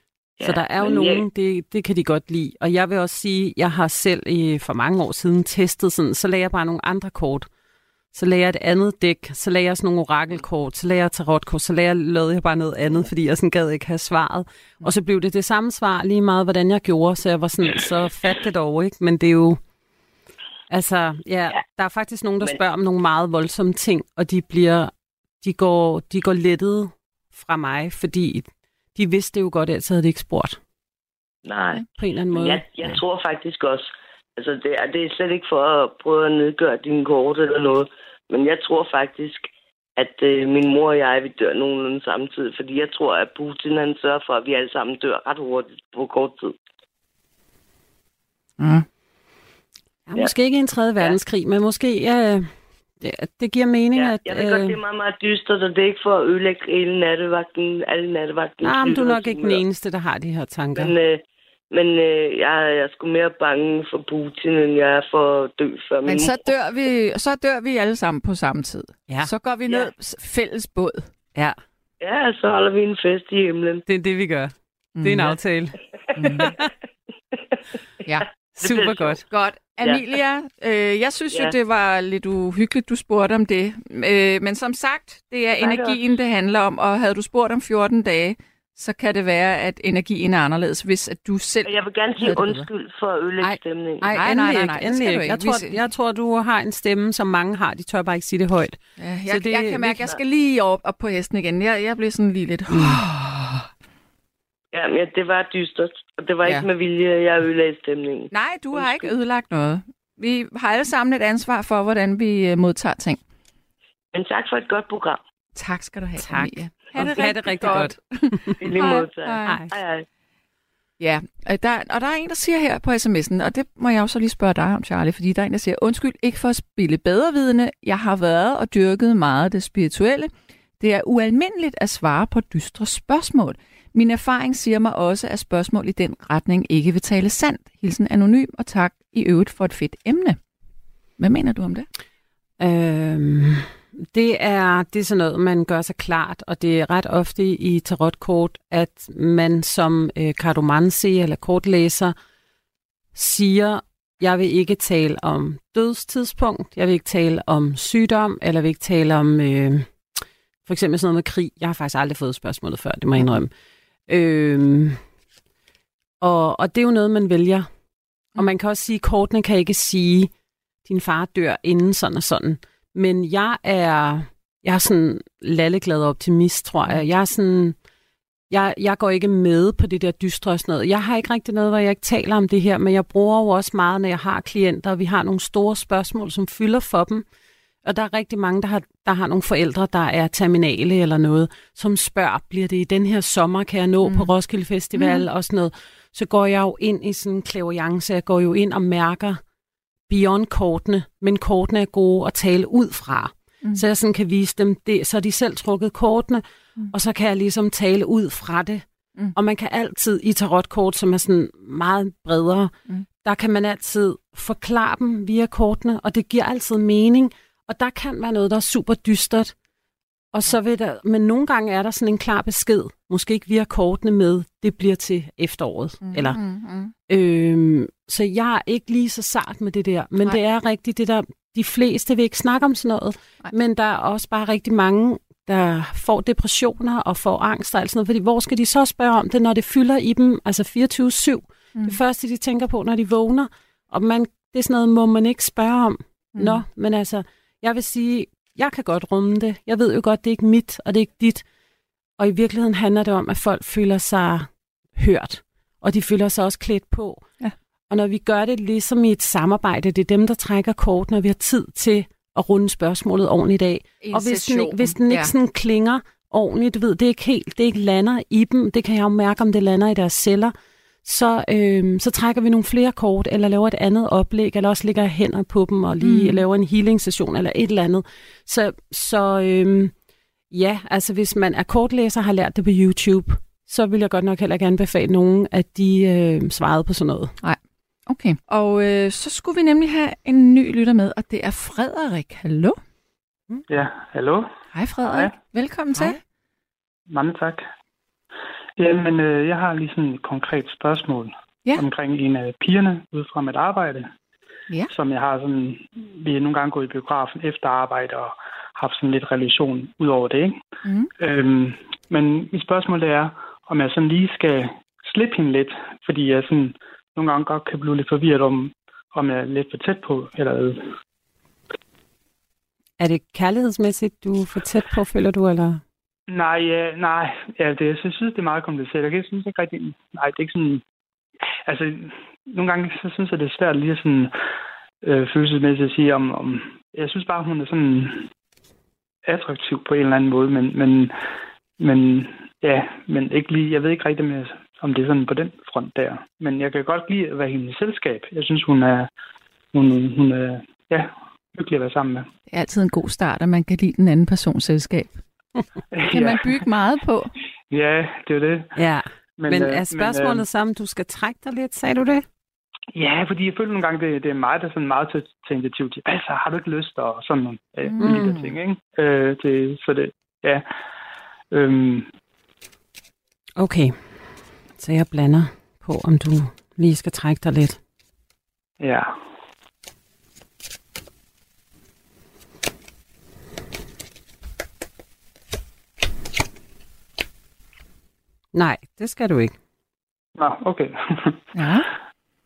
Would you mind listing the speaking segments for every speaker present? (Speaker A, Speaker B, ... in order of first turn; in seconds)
Speaker A: 0.4-1.2, 31.4-46.5, 53.9-59.6, 60.7-66.4, 72.0-73.8, 76.2-76.5, 78.6-79.2, 85.5-86.0, 91.6-94.1, 104.7-109.1, 114.1-115.2, 118.6-120.0
Speaker B: 0.4-7.5, 8.1-19.6, 20.7-24.9, 25.4-30.6, 32.0-33.0, 50.1-52.5, 53.0-54.8, 58.6-60.9, 73.9-75.8, 76.4-76.7, 78.6-79.2, 93.4-100.0, 102.7-103.0, 116.2-118.5, 142.6-152.1, 153.1-159.9, 160.7-163.5, 164.1-165.0, 166.2-167.7, 168.4-170.3, 170.8-177.7, 178.5-187.2, 187.8-199.4, 200.1-208.8, 209.3-212.7, 213.2-219.5, 220.3-226.4, 227.1-251.4, 252.2-257.2, 257.9-270.5, 271.0-279.9, 280.5-287.3, 323.0-325.8, 358.8-362.2, 368.0-368.3, 373.6-373.9, 374.8-377.8, 388.5-389.5
Speaker C: 48.6-48.9, 66.0-71.1, 75.0-75.3, 76.2-76.5, 79.3-92.7, 94.1-95.8, 99.0-103.7, 108.3-113.2, 115.5-119.6, 121.0-140.4, 141.2-141.9, 194.0-194.3, 194.9-195.2, 226.0-226.9, 246.3-246.6, 264.0-265.3, 276.0-276.4, 287.4-292.8, 294.7-296.2, 310.8-311.1, 352.5-355.2, 356.1-357.3, 367.8-368.5, 391.5-391.9
Speaker D: 293.7-294.5, 295.0-295.3, 297.1-297.6, 298.8-304.1, 304.9-310.6, 311.2-320.9, 326.3-330.8, 331.6-334.3, 335.0-338.3, 339.2-341.1, 341.8-349.1, 349.7-352.3, 355.9-356.6, 357.7-358.7, 359.4-360.4, 362.9-370.6, 371.5-372.1, 378.8-379.1, 390.4-391.4